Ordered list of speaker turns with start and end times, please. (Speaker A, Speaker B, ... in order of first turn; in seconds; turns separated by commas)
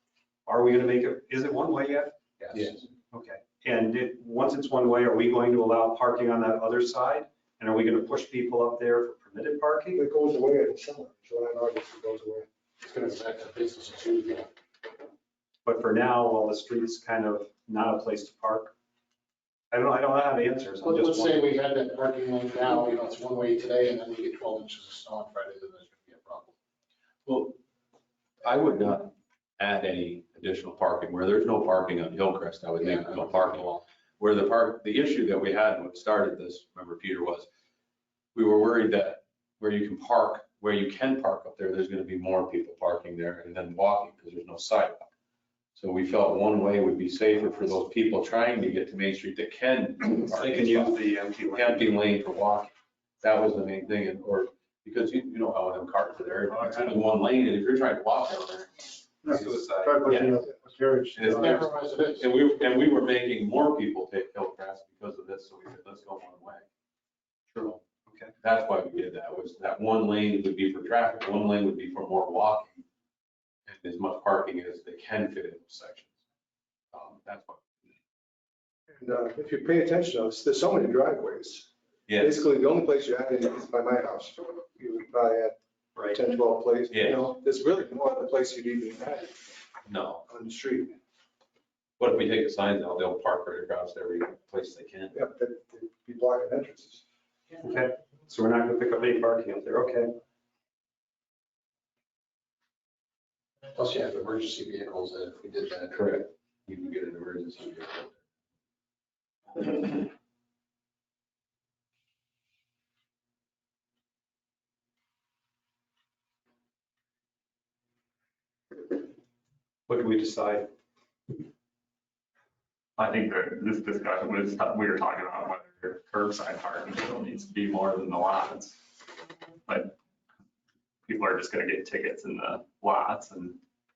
Speaker A: 0.5-10.0, Speaker B: 2.5-2.8, Speaker C: 9.9-12.5, Speaker D: 12.8-14.5, Speaker A: 15.7-18.7, Speaker A: 19.7-21.4, Speaker D: 20.8-26.6, Speaker B: 27.2-27.6, Speaker B: 28.4-37.5, Speaker D: 32.8-33.8, Speaker B: 38.3-45.1, Speaker B: 45.8-51.0, Speaker A: 50.2-51.9, Speaker B: 51.5-58.9, Speaker C: 59.2-61.3, Speaker A: 59.2-60.3, Speaker B: 60.1-60.4, Speaker B: 61.1-66.7, Speaker D: 61.2-62.3, Speaker A: 67.5-68.3, Speaker B: 68.4-72.8, Speaker B: 73.7-76.1, Speaker B: 76.9-77.7, Speaker C: 78.9-85.6, Speaker B: 82.1-82.4, Speaker C: 86.1-89.4, Speaker B: 86.9-87.3, Speaker B: 89.9-90.2, Speaker C: 90.3-91.0, Speaker B: 92.0-95.2, Speaker C: 95.1-97.0, Speaker A: 97.6-100.1, Speaker D: 103.7-106.1, Speaker B: 105.9-108.1, Speaker A: 119.9-120.7, Speaker E: 123.0-128.8, Speaker E: 129.7-130.0, Speaker E: 131.1-133.6